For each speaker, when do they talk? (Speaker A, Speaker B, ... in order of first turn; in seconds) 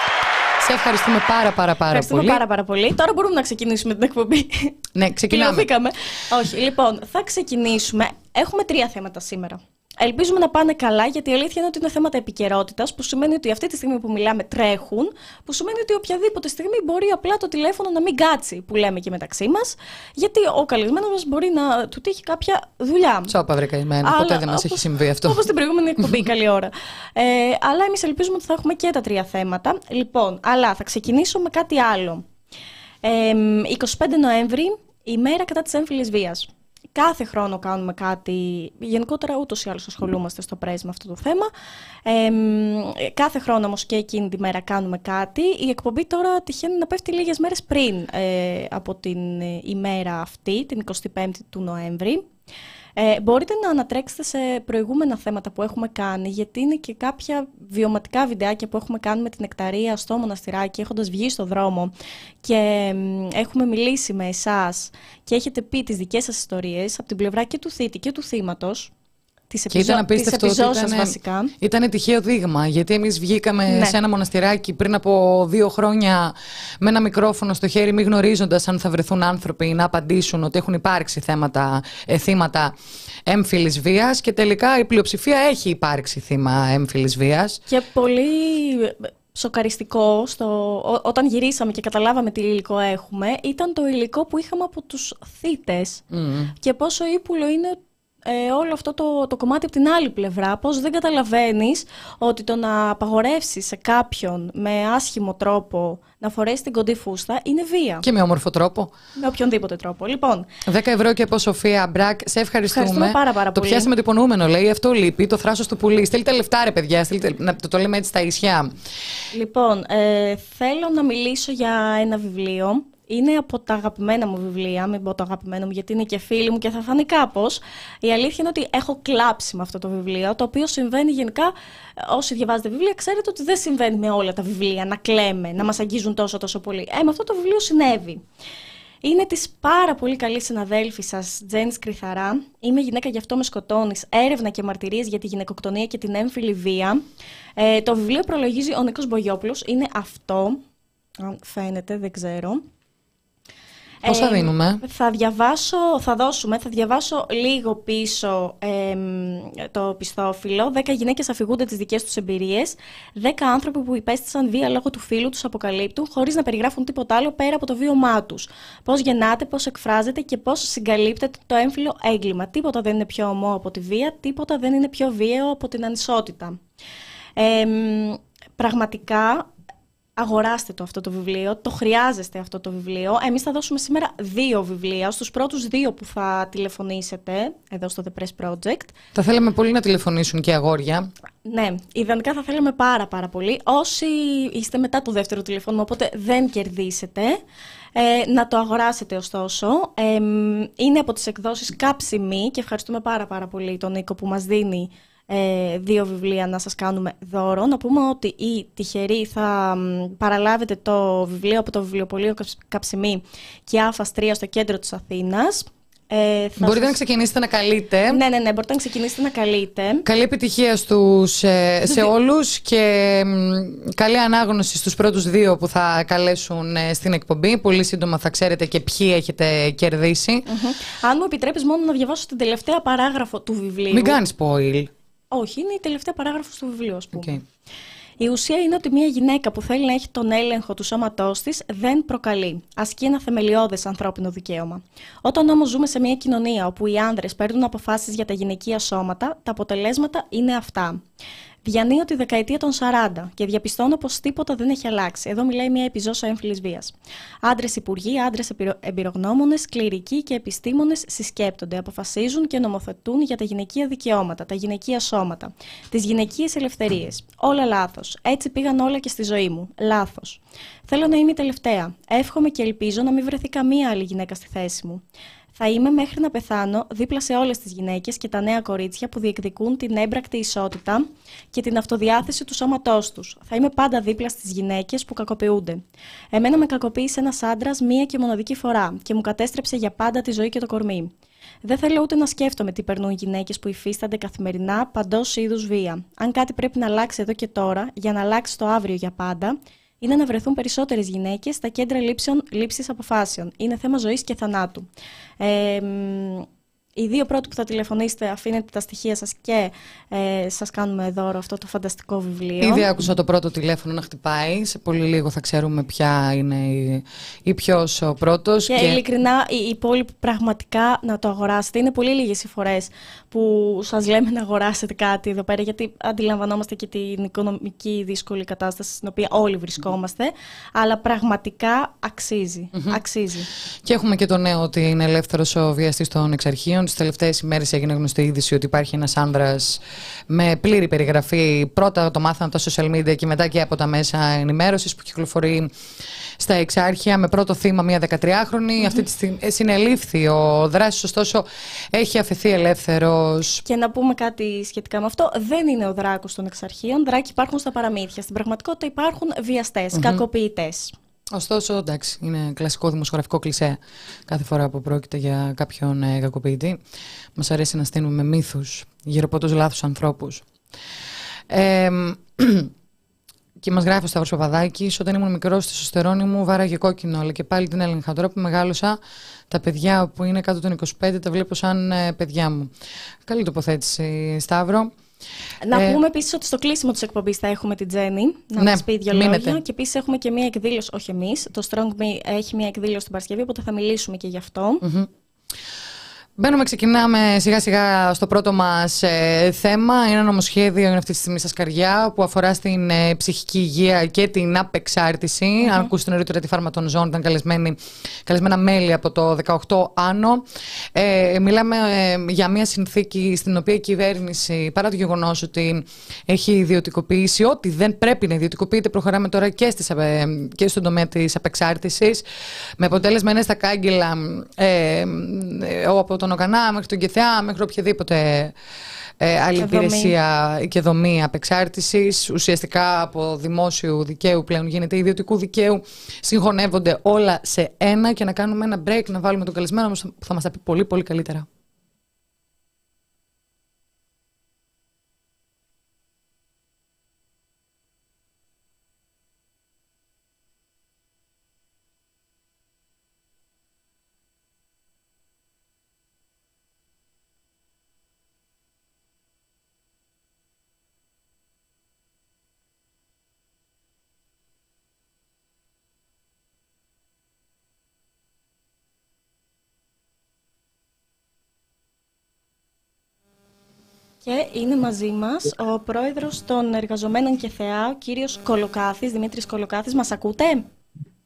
Speaker A: 0.6-2.4, 5.0-5.7, 23.3-25.4, 69.7-82.7, 83.3-87.6, 96.1-96.5, 108.0-108.9, 110.7-118.8, 154.1-154.8, 189.2-191.1, 216.6-218.2, 220.1-230.5, 233.9-234.9, 237.1-237.4, 312.6-319.0, 332.7-333.0, 333.8-345.7, 346.4-353.6, 359.9-360.2, 361.3-366.8, 367.4-370.4, 371.5-372.7, 373.6-379.0, 379.5-382.7, 383.2-385.0, 385.7-386.0, 388.6-389.6, 394.8-395.1, 396.4-422.2, 422.8-428.6, 429.2-441.5
Speaker B: 1.9-4.8, 5.3-23.4, 24.0-32.3, 33.0-41.5, 42.1-52.3, 53.0-61.9, 62.4-68.9, 69.5-71.5, 73.7-74.0, 87.7-96.0, 96.6-108.0, 109.2-110.5, 112.7-113.9, 119.3-138.2, 139.0-147.1, 147.6-150.6, 151.2-152.7, 154.0-176.6, 177.4-179.5, 180.2-188.9, 191.5-197.4, 198.0-217.0, 218.1-220.1, 230.5-234.2, 235.3-237.4, 238.2-251.0, 251.6-275.0, 275.6-291.1, 291.6-304.9, 305.4-312.9, 318.7-333.5, 353.6-360.9, 385.6-394.8, 405.6-405.9, 429.6-430.1, 474.2-480.7